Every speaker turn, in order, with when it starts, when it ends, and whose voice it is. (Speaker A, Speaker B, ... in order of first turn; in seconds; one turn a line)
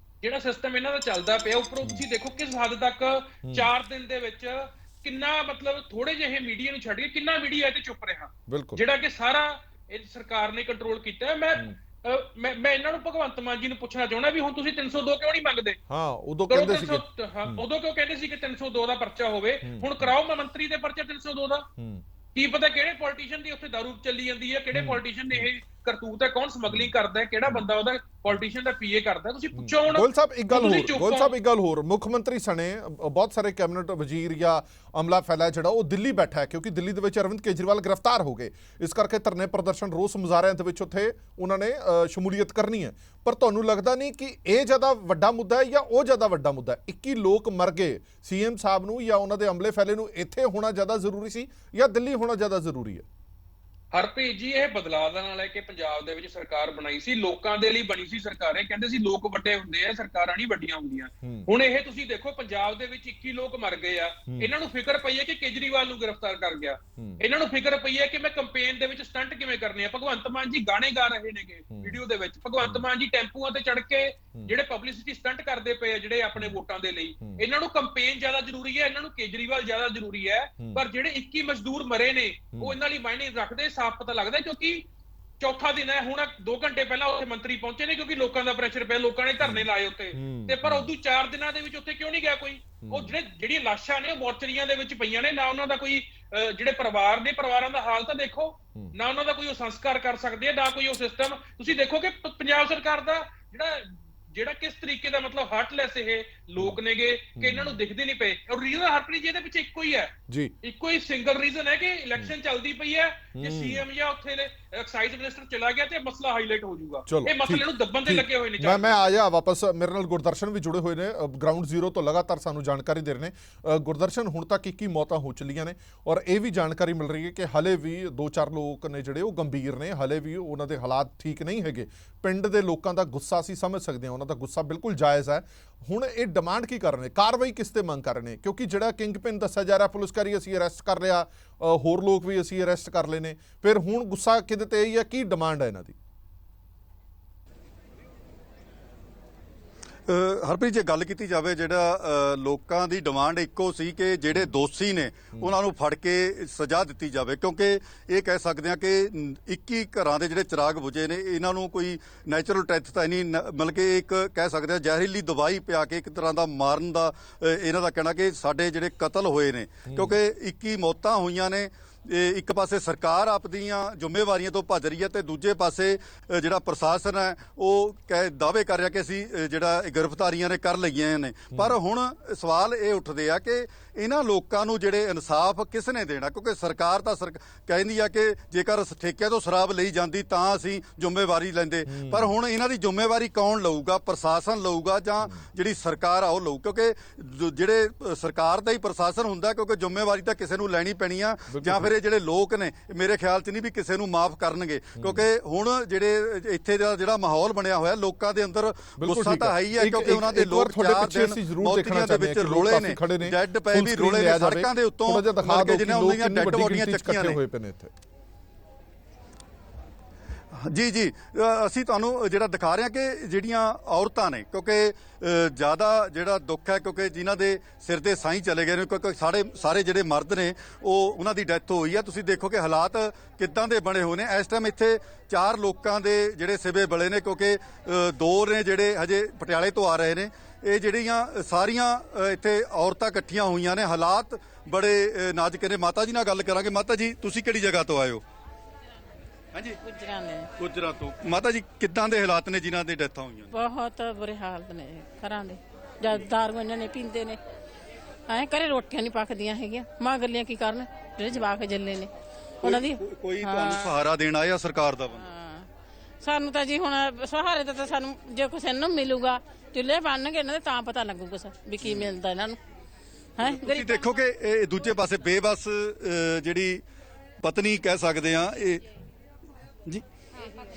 Speaker A: 0.2-15.8
Speaker B: 8.5-8.8
Speaker B: 15.9-17.6
Speaker A: 16.5-21.7
Speaker B: 19.6-20.1
Speaker B: 21.8-22.0
Speaker A: 22.3-31.3
Speaker B: 24.7-25.4
Speaker B: 29.6-53.0
Speaker A: 53.9-84.9
Speaker B: 61.2-61.5
Speaker B: 64.3-64.5
Speaker B: 67.0-67.2
Speaker B: 71.7-72.0
Speaker A: 85.4-119.1
Speaker B: 89.4-90.9
Speaker B: 92.8-93.1
Speaker B: 107.4-107.8
Speaker B: 110.3-110.5
Speaker B: 113.3-113.8
Speaker B: 117.1-145.9
Speaker C: 150.1-217.4
Speaker B: 169.8-170.2
Speaker B: 191.8-192.3
Speaker B: 201.5-201.9
Speaker B: 205.0-205.2
Speaker B: 209.0-217.9
Speaker C: 220.5-248.2
Speaker C: 249.5-249.8
Speaker D: 249.8-250.5
Speaker C: 250.6-253.5
Speaker D: 253.5-257.4
Speaker D: 258.3-262.1
Speaker D: 262.6-264.0
Speaker C: 262.6-265.3
Speaker D: 265.2-265.7
Speaker D: 266.2-272.6
Speaker C: 271.8-272.1
Speaker D: 273.4-274.0
Speaker C: 273.4-276.8
Speaker C: 277.4-278.8